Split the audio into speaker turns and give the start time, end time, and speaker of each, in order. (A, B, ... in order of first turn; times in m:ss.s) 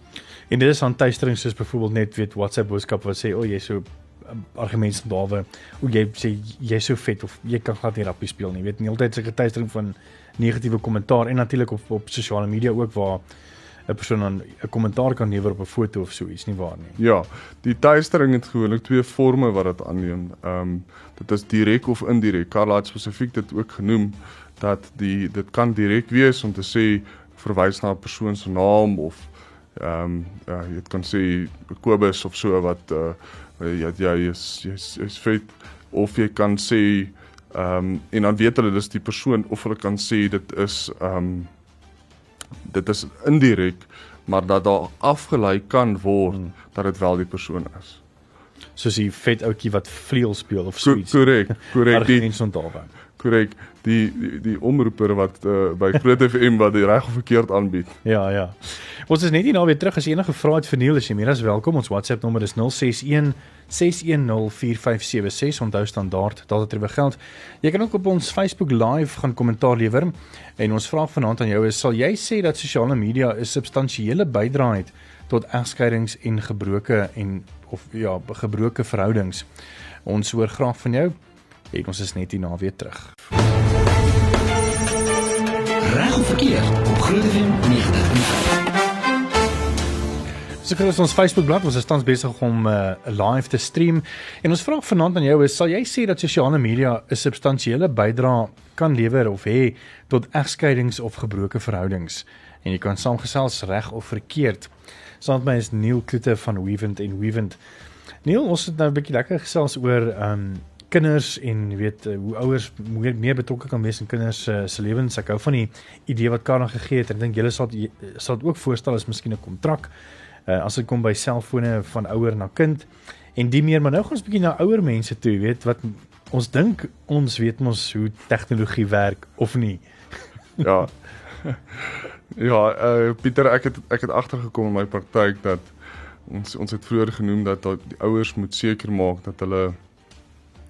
0:00.5-0:13.2 A
0:13.9-0:17.0 A
0:17.0-0:41.5 B
0:42.6-0:48.0 B
0:48.8-0:52.9 A
0:50.8-0:52.3 B
0:53.2-0:58.0 B
0:58.0-1:19.5 A
1:20.0-1:21.1 A
1:21.7-1:23.1 A
1:25.8-1:28.5 C
1:30.6-1:47.6 A
1:48.2-1:59.9 A
2:00.5-2:09.8 A
2:10.6-2:15.7 B
2:16.2-2:19.8 B